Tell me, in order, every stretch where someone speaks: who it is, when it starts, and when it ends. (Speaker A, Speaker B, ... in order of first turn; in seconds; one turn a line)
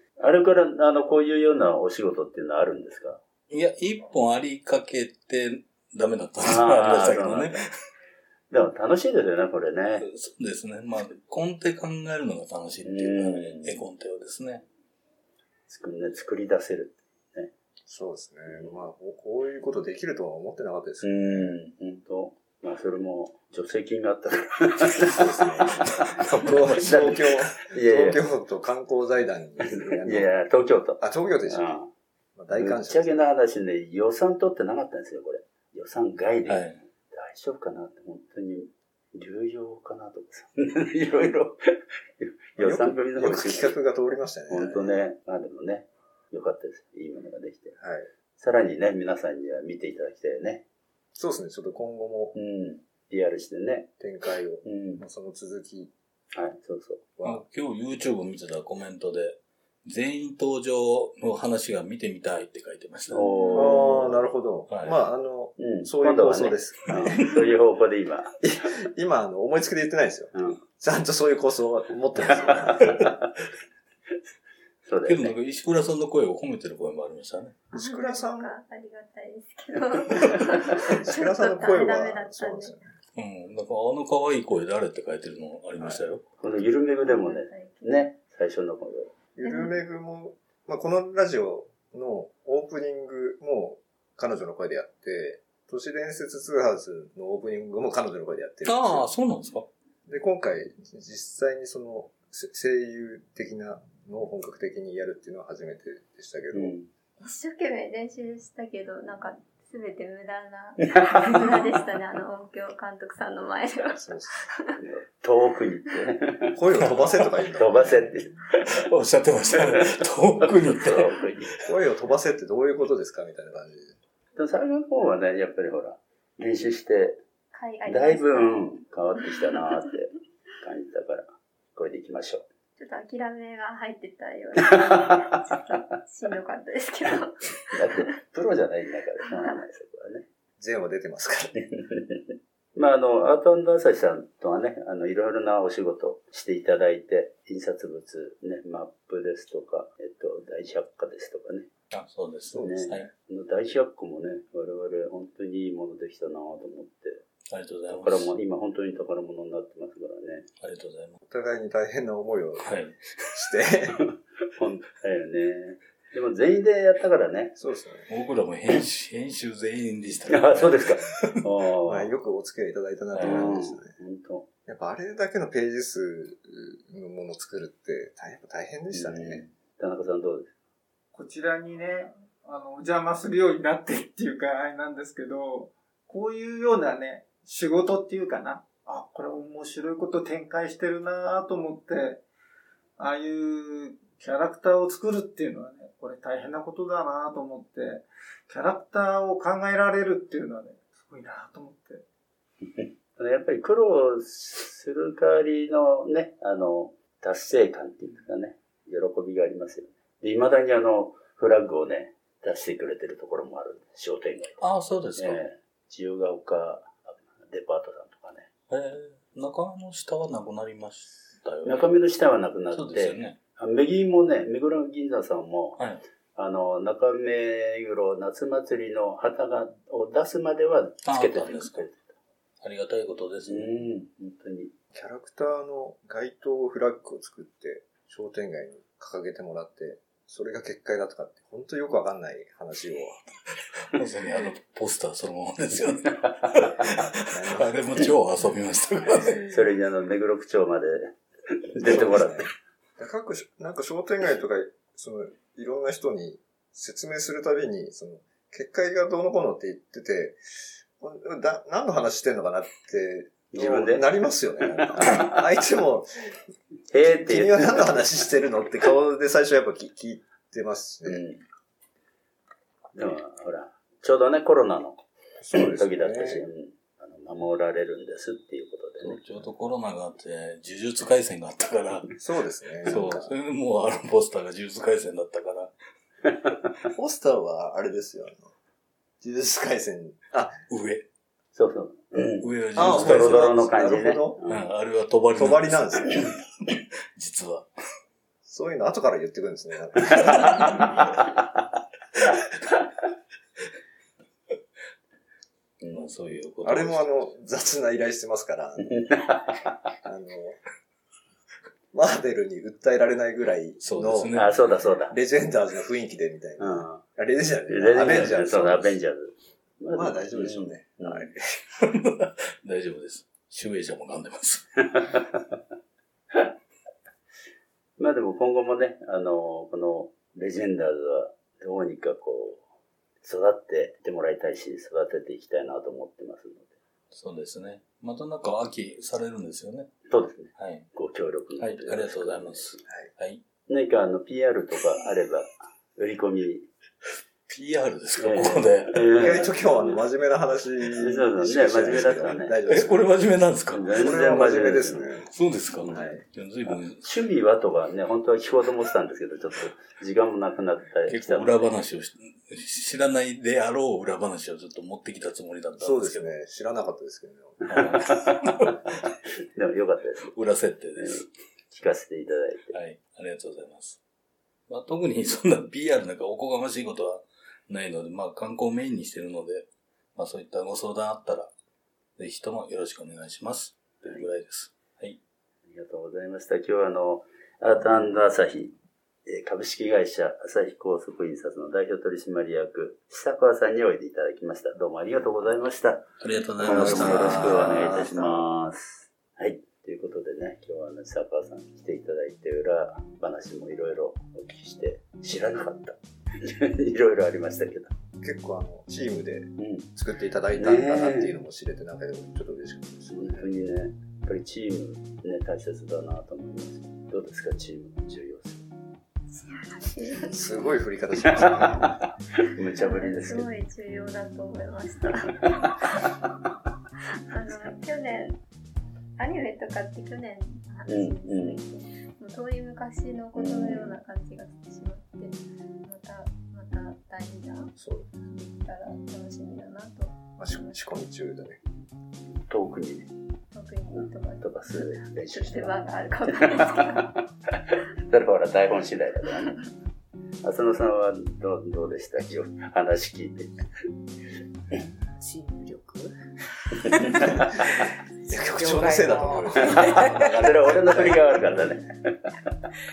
Speaker A: 0.2-3.2
Speaker B: 3.5-7.6
Speaker A: 6.4-7.6
Speaker A: 8.5-10.1
Speaker B: 10.0-14.6
Speaker A: 12.8-13.8
Speaker A: 15.7-17.5
Speaker C: 17.9-21.5
Speaker A: 18.5-18.8
Speaker A: 21.0-26.0
Speaker C: 25.0-30.3
Speaker B: 26.3-27.2
Speaker A: 26.8-28.2
Speaker A: 29.6-31.9
Speaker C: 31.0-31.7
Speaker C: 32.4-33.1
Speaker A: 32.5-41.6
Speaker B: 36.5-36.8
Speaker A: 42.2-43.7
Speaker C: 42.6-45.0
Speaker A: 44.5-47.8
Speaker C: 47.8-48.1
Speaker A: 48.4-50.6
Speaker C: 51.1-52.3
Speaker A: 52.3-53.9
Speaker C: 54.0-55.9
Speaker A: 54.6-55.0
Speaker A: 56.3-57.0
Speaker C: 57.2-57.4
Speaker B: 57.2-63.2
Speaker A: 63.1-64.2
Speaker D: 63.2-64.0
Speaker C: 63.5-67.2
Speaker B: 64.7-64.9
Speaker A: 65.6-68.3
Speaker C: 68.4-73.1
Speaker A: 70.3-70.6
Speaker A: 72.2-73.2
Speaker A: 74.8-75.3
Speaker B: 75.0-77.6
Speaker C: 77.7-78.5
Speaker D: 77.7-82.7
Speaker C: 80.8-82.9
Speaker B: 83.2-86.2
Speaker A: 86.4-89.1
Speaker D: 87.0-88.0
Speaker C: 89.3-99.1
Speaker D: 89.4-89.7
Speaker B: 98.6-99.7
Speaker C: 100.1-106.7
Speaker A: 106.5-106.9
Speaker D: 107.2-114.5
Speaker A: 111.0-111.6
Speaker C: 113.9-114.5
Speaker A: 114.8-116.6
Speaker C: 116.5-118.3
Speaker B: 116.8-117.3
Speaker A: 117.5-118.7
Speaker B: 118.7-121.1
Speaker A: 119.5-121.6
Speaker C: 121.6-124.0
Speaker A: 124.3-127.2
Speaker D: 127.5-128.7
Speaker A: 127.8-132.4
Speaker D: 132.8-138.0
Speaker A: 137.7-140.2
Speaker C: 140.6-141.6
Speaker A: 141.8-142.2
Speaker A: 142.7-151.7
Speaker B: 151.9-153.1
Speaker A: 152.5-157.2
Speaker B: 157.5-158.3
Speaker A: 157.9-160.5
Speaker B: 160.6-161.2
Speaker C: 161.2-162.7
Speaker B: 162.6-163.5
Speaker C: 163.3-164.0
Speaker A: 164.5-167.6
Speaker C: 167.6-168.1
Speaker B: 168.1-171.4
Speaker A: 170.3-172.1
Speaker C: 171.8-173.9
Speaker B: 173.1-173.5
Speaker A: 173.2-174.5
Speaker C: 174.7-179.4
Speaker A: 178.9-180.5
Speaker E: 181.1-192.2
Speaker E: 193.0-202.0
Speaker A: 202.6-214.6
Speaker B: 214.6-215.4
Speaker A: 215.2-218.5
Speaker B: 218.7-221.9
Speaker A: 221.6-225.8
Speaker B: 222.7-223.4
Speaker A: 226.3-232.1
Speaker B: 231.0-231.9
Speaker B: 232.6-233.7
Speaker A: 233.5-234.7
Speaker C: 234.9-243.2
Speaker B: 243.9-249.5
Speaker A: 246.1-246.5
Speaker C: 247.3-248.0
Speaker A: 249.5-251.1
Speaker A: 251.7-252.5
Speaker C: 251.8-260.4
Speaker C: 261.0-266.1
Speaker A: 263.5-264.1
Speaker A: 264.8-265.4
Speaker A: 266.9-268.1
Speaker C: 267.0-271.2
Speaker A: 271.1-271.4
Speaker A: 272.9-275.0
Speaker C: 275.4-276.4
Speaker A: 275.5-279.2
Speaker B: 279.0-282.1
Speaker C: 282.2-283.3
Speaker B: 282.8-285.7
Speaker C: 286.9-288.5
Speaker C: 289.2-290.6
Speaker B: 290.7-291.1
Speaker A: 291.5-294.6
Speaker B: 292.4-293.7
Speaker C: 292.8-294.4
Speaker B: 294.5-297.7
Speaker C: 295.4-296.1
Speaker C: 298.4-300.8
Speaker A: 300.1-301.2
Speaker B: 300.6-300.9
Speaker A: 305.8-306.1
Speaker B: 305.9-307.1
Speaker C: 306.6-309.0
Speaker A: 308.8-309.7
Speaker C: 310.0-310.6
Speaker C: 311.9-314.4
Speaker B: 313.8-314.5
Speaker A: 314.3-315.2
Speaker C: 315.1-319.0
Speaker A: 316.6-317.0
Speaker A: 317.7-321.3
Speaker C: 319.9-321.4
Speaker B: 321.8-324.8
Speaker A: 324.9-325.6
Speaker A: 328.0-332.6
Speaker A: 333.2-336.7
Speaker B: 337.1-339.9
Speaker A: 340.1-342.8
Speaker B: 340.6-340.9
Speaker B: 341.6-343.4
Speaker A: 343.7-346.7
Speaker B: 347.5-349.1
Speaker A: 348.2-350.0
Speaker C: 349.1-353.0
Speaker A: 351.0-352.6
Speaker B: 352.7-353.8
Speaker A: 353.7-355.1
Speaker C: 353.9-355.3
Speaker B: 355.3-357.0
Speaker C: 355.9-356.2
Speaker A: 357.0-361.7
Speaker B: 361.1-366.3
Speaker C: 365.8-367.6
Speaker A: 367.6-368.7
Speaker B: 367.7-368.8
Speaker A: 369.5-370.3
Speaker B: 370.2-371.3
Speaker A: 370.9-372.7
Speaker B: 372.7-374.0
Speaker B: 374.7-381.5
Speaker B: 382.2-385.2
Speaker A: 384.0-384.3
Speaker A: 385.7-388.7
Speaker A: 389.2-407.9
Speaker B: 396.2-398.0
Speaker C: 396.6-398.5
Speaker C: 408.2-413.5
Speaker A: 409.6-409.9
Speaker A: 410.5-411.3
Speaker A: 413.1-418.6
Speaker D: 419.3-420.5
Speaker C: 420.1-421.9
Speaker A: 421.3-423.5
Speaker D: 422.7-426.2
Speaker D: 427.1-428.4
Speaker D: 429.2-440.8
Speaker A: 430.9-431.6
Speaker A: 433.3-433.9
Speaker C: 437.8-438.1
Speaker C: 440.4-441.6
Speaker A: 442.5-443.1
Speaker D: 443.5-447.2
Speaker A: 443.9-449.6
Speaker A: 450.4-453.6
Speaker F: 454.7-456.1
Speaker F: 456.6-457.8
Speaker A: 456.9-457.6
Speaker C: 458.2-461.6
Speaker F: 458.4-460.3
Speaker A: 459.6-462.4